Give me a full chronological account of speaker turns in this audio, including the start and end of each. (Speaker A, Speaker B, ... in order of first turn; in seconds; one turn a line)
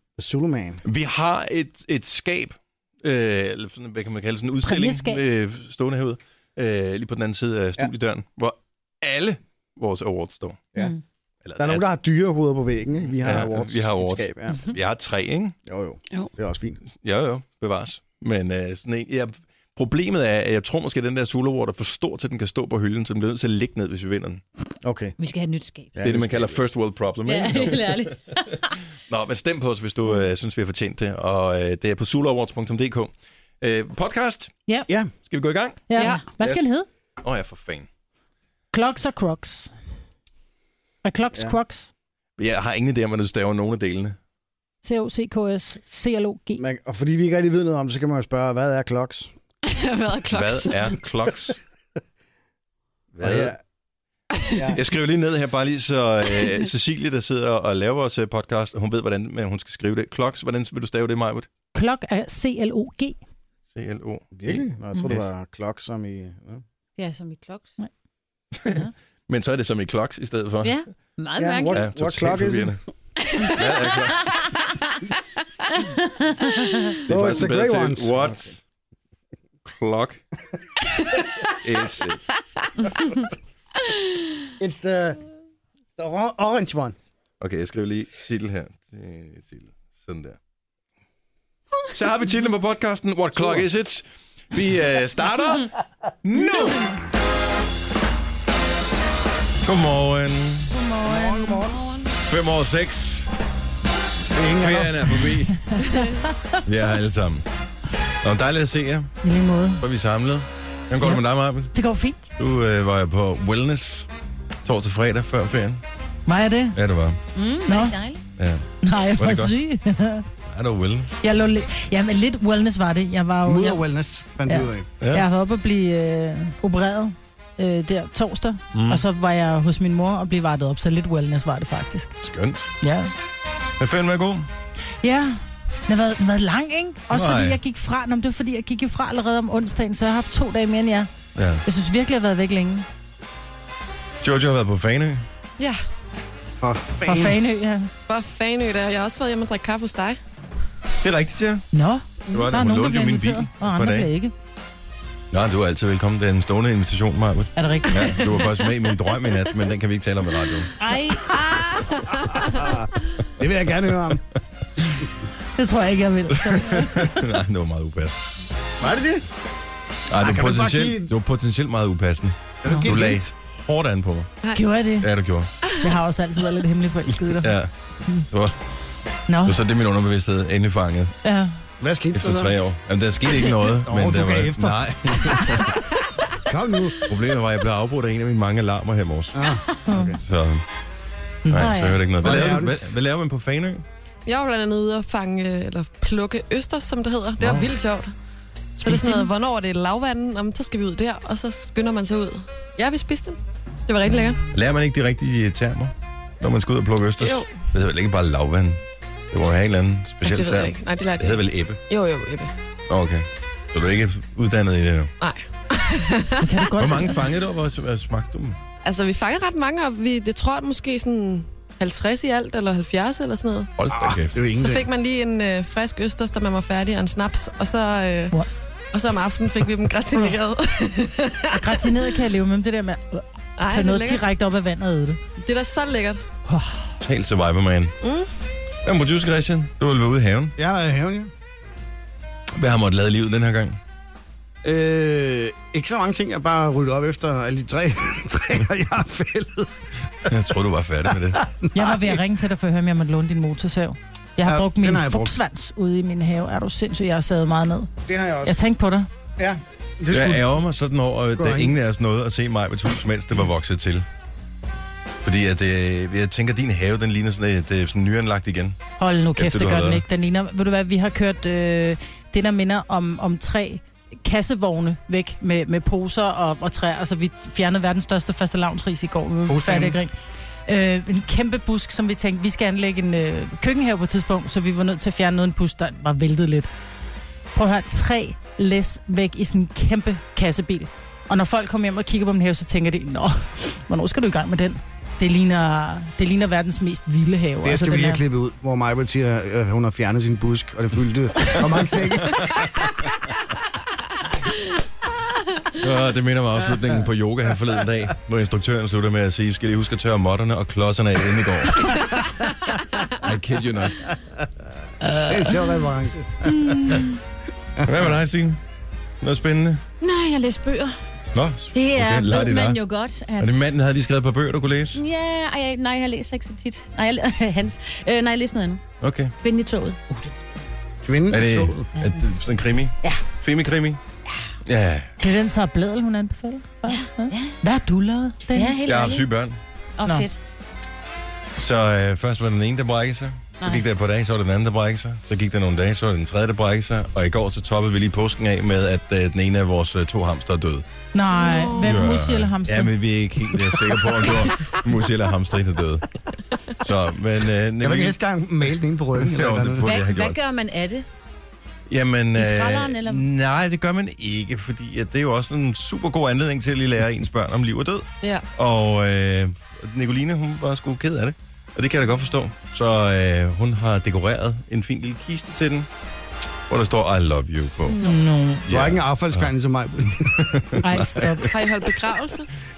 Speaker A: 0.2-0.8
Speaker B: 0.8-10.7
Speaker C: 4.6-5.2
Speaker B: 11.4-11.8
Speaker A: 11.6-14.6
Speaker B: 13.2-15.6
Speaker A: 15.7-16.8
Speaker B: 16.9-24.4
Speaker A: 24.8-25.2
Speaker D: 25.2-25.9
Speaker A: 25.9-26.6
Speaker B: 26.0-28.0
Speaker D: 27.2-28.8
Speaker B: 29.1-34.5
Speaker B: 35.3-36.7
Speaker C: 35.9-36.9
Speaker E: 36.0-36.2
Speaker B: 37.2-37.9
Speaker C: 38.7-39.7
Speaker C: 41.0-41.9
Speaker B: 42.4-44.2
Speaker C: 44.8-46.6
Speaker A: 46.6-49.3
Speaker E: 49.7-51.0
Speaker B: 50.3-51.6
Speaker B: 53.1-53.5
Speaker A: 53.2-53.6
Speaker A: 54.5-54.8
Speaker B: 54.7-61.5
Speaker C: 61.8-63.2
Speaker B: 63.7-65.3
Speaker A: 64.3-66.6
Speaker D: 67.0-67.7
Speaker B: 68.6-70.8
Speaker D: 70.6-71.8
Speaker A: 71.4-72.8
Speaker B: 71.7-72.8
Speaker D: 73.4-74.0
Speaker B: 73.4-74.4
Speaker D: 75.8-76.8
Speaker B: 77.0-78.6
Speaker A: 77.1-78.4
Speaker B: 79.7-80.2
Speaker B: 81.6-82.2
Speaker A: 84.6-85.2
Speaker A: 86.0-87.1
Speaker B: 87.4-90.4
Speaker B: 92.0-97.0
Speaker A: 93.4-93.6
Speaker B: 99.6-100.7
Speaker C: 100.7-101.6
Speaker A: 101.1-101.8
Speaker D: 101.3-102.1
Speaker B: 102.2-103.3
Speaker A: 104.3-105.3
Speaker B: 104.5-105.8
Speaker C: 105.7-106.6
Speaker B: 106.7-107.5
Speaker B: 108.2-109.2
Speaker C: 109.2-109.8
Speaker B: 109.8-111.7
Speaker C: 111.0-112.3
Speaker B: 112.4-114.1
Speaker B: 114.7-115.8
Speaker C: 116.3-116.8
Speaker B: 116.8-117.2
Speaker D: 117.3-118.2
Speaker C: 117.7-118.0
Speaker B: 118.4-119.5
Speaker C: 118.8-120.2
Speaker B: 120.5-121.1
Speaker C: 121.2-123.8
Speaker A: 123.5-124.9
Speaker C: 124.5-132.1
Speaker B: 125.0-125.3
Speaker B: 128.7-129.0
Speaker B: 132.2-132.7
Speaker C: 132.8-133.1
Speaker B: 133.8-134.5
Speaker C: 135.0-141.1
Speaker B: 137.1-137.6
Speaker B: 141.4-141.6
Speaker C: 141.7-142.9
Speaker B: 144.2-145.3
Speaker A: 146.6-147.4
Speaker C: 147.0-147.9
Speaker E: 148.1-150.2
Speaker B: 151.0-151.7
Speaker C: 151.7-154.3
Speaker B: 152.3-154.1
Speaker B: 155.3-160.7
Speaker C: 157.6-158.3
Speaker E: 158.1-158.5
Speaker D: 160.8-161.3
Speaker E: 161.3-162.7
Speaker A: 162.6-162.9
Speaker A: 163.4-164.2
Speaker C: 165.6-167.3
Speaker B: 166.4-168.3
Speaker A: 168.8-169.2
Speaker B: 170.1-174.3
Speaker A: 170.2-171.1
Speaker A: 172.6-173.3
Speaker C: 172.7-172.9
Speaker C: 174.5-175.1
Speaker B: 175.0-175.5
Speaker C: 175.8-177.6
Speaker B: 177.3-177.7
Speaker B: 178.3-178.6
Speaker C: 179.3-179.6
Speaker B: 179.4-181.1
Speaker C: 181.2-181.5
Speaker A: 181.8-182.6
Speaker B: 182.1-185.9
Speaker A: 183.6-185.6
Speaker A: 186.4-187.0
Speaker B: 187.1-189.4
Speaker A: 189.3-190.2
Speaker C: 189.9-190.1
Speaker B: 190.2-190.6
Speaker C: 191.4-191.9
Speaker B: 191.5-193.8
Speaker D: 191.6-192.0
Speaker A: 192.2-193.0
Speaker E: 194.3-198.1
Speaker C: 198.8-199.3
Speaker E: 198.8-204.4
Speaker B: 204.5-211.8
Speaker E: 207.2-207.6
Speaker E: 210.2-212.5
Speaker B: 212.9-215.1
Speaker E: 215.2-216.5
Speaker C: 216.4-217.2
Speaker B: 216.8-218.6
Speaker E: 218.8-223.7
Speaker B: 223.8-224.5
Speaker A: 223.9-224.9
Speaker E: 224.5-228.4
Speaker E: 228.9-231.6
Speaker C: 231.5-235.2
Speaker E: 233.6-234.2
Speaker E: 235.4-236.2
Speaker C: 236.5-236.9
Speaker B: 237.0-238.0
Speaker E: 238.0-238.3
Speaker B: 238.8-240.6
Speaker A: 240.6-241.3
Speaker B: 242.6-243.8
Speaker A: 244.6-250.3
Speaker B: 250.3-251.4
Speaker A: 251.1-252.2
Speaker C: 251.7-257.9
Speaker A: 254.4-255.4
Speaker A: 258.1-258.6
Speaker C: 258.4-259.1
Speaker A: 259.4-260.6
Speaker B: 260.1-264.1
Speaker A: 261.4-261.8
Speaker B: 265.2-268.8
Speaker C: 269.0-280.1
Speaker B: 269.4-270.0
Speaker A: 279.5-280.0
Speaker C: 280.7-286.7
Speaker C: 287.5-298.2
Speaker A: 297.6-302.5
Speaker B: 302.2-302.7
Speaker B: 305.8-312.0
Speaker B: 313.2-314.2
Speaker A: 315.3-316.9
Speaker C: 316.6-317.0
Speaker A: 317.8-318.1
Speaker B: 317.9-318.6
Speaker B: 319.2-319.8
Speaker D: 320.0-321.0
Speaker B: 321.4-322.8
Speaker D: 321.7-323.7
Speaker B: 323.4-325.0
Speaker D: 324.9-328.8
Speaker B: 329.0-329.3
Speaker D: 329.4-330.6
Speaker A: 331.0-331.9
Speaker B: 331.3-334.0
Speaker D: 332.0-332.4
Speaker B: 334.6-335.1
Speaker C: 335.2-339.0
Speaker D: 336.9-337.6
Speaker D: 338.5-339.3
Speaker B: 338.9-339.6
Speaker D: 340.0-340.4
Speaker B: 341.6-350.9
Speaker D: 343.6-343.9
Speaker C: 351.1-352.9
Speaker E: 351.3-352.1
Speaker B: 351.8-356.2
Speaker B: 356.7-358.2
Speaker A: 357.8-359.9
Speaker B: 359.2-360.4
Speaker D: 359.8-361.1
Speaker B: 361.9-375.9
Speaker D: 362.3-363.3
Speaker B: 376.7-378.0
Speaker D: 377.9-378.2
Speaker C: 378.0-378.6
Speaker B: 378.7-379.5
Speaker A: 378.7-380.8
Speaker B: 380.1-381.8
Speaker C: 380.8-381.5
Speaker E: 381.5-382.5